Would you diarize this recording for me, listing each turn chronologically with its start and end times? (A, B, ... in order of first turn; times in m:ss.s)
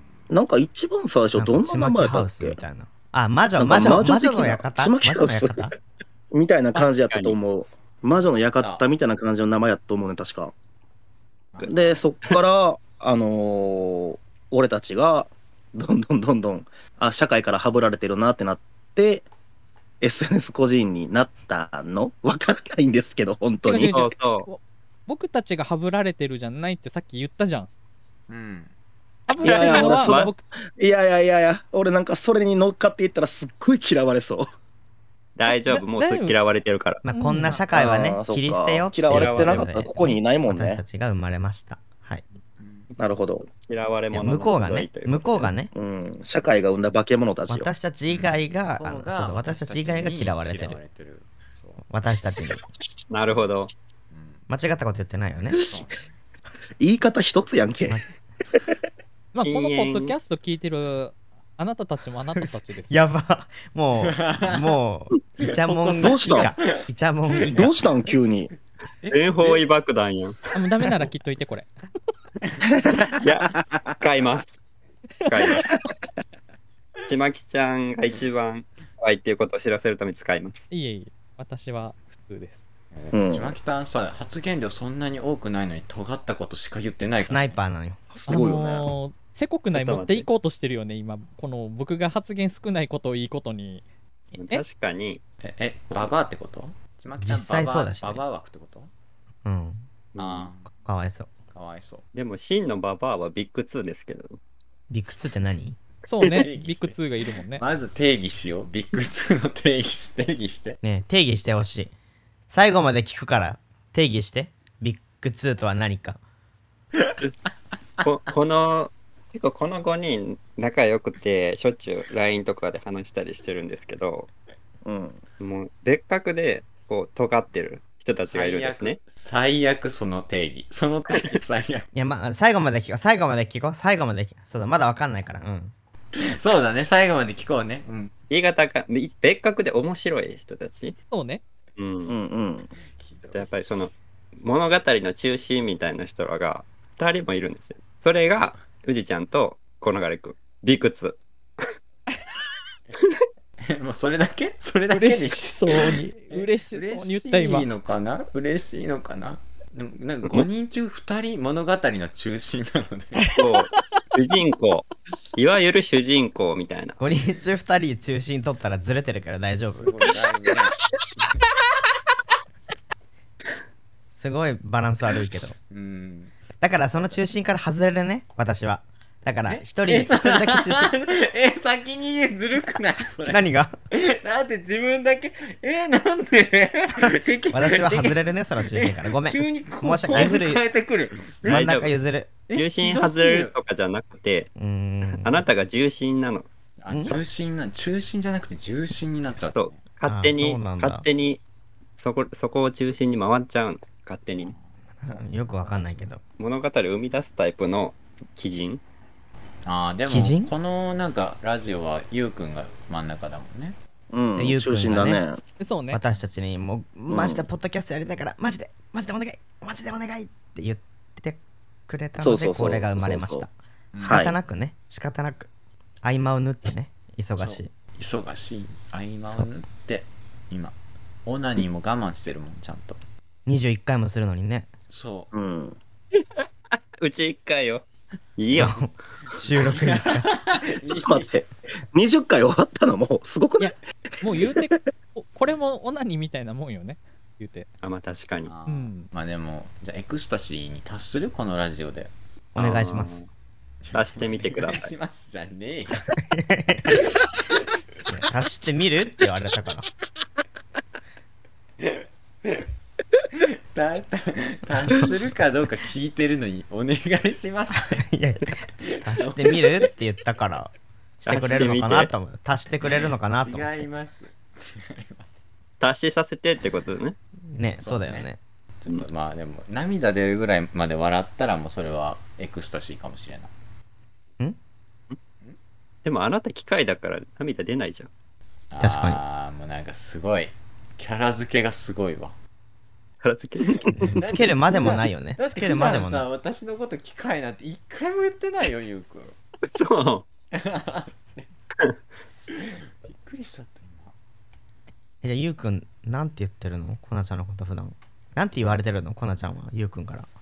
0:00.3-0:02.6 A
0:01.3-0:05.7 B
0:03.6-0:05.7 A
0:06.3-0:10.5 A
0:06.7-0:07.4 C
0:08.6-0:08.8 D
0:11.5-0:12.0 D
0:11.6-0:19.2 A
0:20.0-0:24.0 A
0:23.6-0:27.7 E
0:23.8-0:24.5 C
0:28.3-0:28.7 D
0:29.3-0:30.4 E
0:29.4-0:34.5 A
0:29.4-0:29.8 D
0:29.5-0:30.3 C
0:35.4-0:37.0 C
0:35.4-0:36.4 E
0:37.0-0:42.2 B
0:37.0-0:37.6 E
0:37.7-0:40.8 A
0:39.1-0:39.9 C
0:42.6-0:42.9 D
0:43.0-0:43.4 A
0:43.4-0:45.5 C
0:44.1-0:45.7 B
0:45.7-0:47.7 A
0:47.5-0:50.8 B
0:48.1-0:51.9 D
0:51.9-0:52.6 B
0:52.2-0:52.6 A
0:53.1-0:53.7 C
0:53.2-0:53.5 D
0:54.1-0:54.4 D
0:54.5-0:55.6 B
0:55.3-0:56.1 D
0:56.8-0:58.0 A
0:59.3-1:02.9 E
0:59.4-1:00.1 C
1:02.9-1:07.7 B
1:04.0-1:04.8 D
1:05.4-1:07.7 D
1:06.0-1:06.5 A
1:07.5-1:08.5 A
1:09.0-1:09.7 D
1:09.1-1:10.4 C
1:10.5-1:11.7 E
1:12.4-1:13.2 D
1:13.2-1:14.6 C
1:15.2-1:15.7 C
1:17.0-1:20.7 C
1:20.7-1:22.6 E
1:22.9-1:27.5 D
1:23.1-1:23.6 A
1:27.1-1:28.0 B
1:28.1-1:28.9 A
1:28.3-1:33.8 E
1:29.7-1:30.3 C
1:34.3-1:35.2 C
1:35.4-1:38.9 D
1:37.2-1:38.2 B
1:39.4-1:39.9 B
1:40.1-1:40.5 C
1:40.2-1:40.7 D
1:40.7-1:41.3 B
1:41.5-1:42.0 D
1:42.1-1:44.4 C
1:44.9-1:45.8 B
1:46.0-1:47.6 E
1:46.3-1:50.8 D
1:50.8-1:51.9 B
1:52.5-1:56.2 B
1:58.0-2:04.3 C
2:04.8-2:05.2 A
2:05.4-2:09.0 C
2:08.2-2:11.9 D
2:11.9-2:15.7 B
2:16.2-2:18.1 D
2:18.3-2:21.0 C
2:21.1-2:21.4 E
2:21.8-2:22.1 C
2:22.1-2:22.7 A
2:22.7-2:23.6 D
2:23.3-2:31.2 C
2:28.3-2:28.6 D
2:33.6-2:43.8 D
2:34.9-2:37.7 E
2:43.4-2:47.0 C
2:47.0-2:49.9 B
2:49.7-2:50.7 D
2:50.0-2:50.4 A
2:54.1-2:55.6 B
2:55.7-2:57.2 D
2:56.6-3:00.9 B
2:59.5-3:11.7 D
3:03.3-3:03.7 B
3:07.5-3:10.6 B
3:11.4-3:12.3 B
3:11.4-3:11.9 C
3:12.5-3:13.6 D
3:12.5-3:14.5 C
3:14.6-3:15.4 B
3:15.1-3:16.5 C
3:16.8-3:19.8 D
3:16.9-3:17.2 B
3:19.5-3:21.4 C
3:20.0-3:21.0 B
3:22.0-3:24.5 C
3:24.3-3:26.1 D
3:25.0-3:26.2 B
3:26.4-3:28.8 C
3:29.6-3:33.8 D
3:30.1-3:30.5 B
3:34.1-3:35.4 A
3:34.4-3:35.2 B
3:35.6-3:36.0 E
3:35.9-3:45.5 B
3:37.1-3:37.4 A
3:42.2-3:43.4 A
3:43.9-3:44.2 D
3:44.0-3:44.3 A
3:46.0-3:47.7 B
3:47.4-3:53.0 D
3:53.4-3:54.7 B
3:54.9-3:55.3 D
3:55.3-3:55.8 A
3:56.7-3:57.8 C
3:58.4-3:58.8 C
3:58.5-4:00.3 B
3:59.3-4:01.4 D
4:00.8-4:03.7 A
4:03.6-4:07.7 E
4:04.2-4:04.7 A
4:07.8-4:08.5 C
4:08.4-4:12.1 D
4:08.7-4:09.1 E
4:12.5-4:13.3 C
4:12.6-4:13.2 B
4:13.8-4:16.1 D
4:13.9-4:14.9 C
4:16.1-4:17.2 B
4:17.0-4:17.6 D
4:18.1-4:19.9 B
4:21.8-4:22.7 D
4:23.3-4:28.0 D
4:27.8-4:28.5 B
4:28.8-4:29.9 D
4:29.0-4:33.8 B
4:31.3-4:32.1 C
4:31.3-4:31.7 D
4:33.3-4:35.4 D
4:35.8-4:37.2 C
4:37.5-4:38.4 B
4:37.8-4:38.3 D
4:38.8-4:43.5 D
4:46.0-4:48.1 C
4:48.7-4:52.4 D
4:48.8-4:49.2 B
4:53.2-4:54.1 C
4:53.7-4:59.4 D
4:53.9-4:56.3 B
4:59.7-5:00.3 C
5:00.5-5:01.5 D
5:02.5-5:04.1 D
5:05.2-5:10.3 B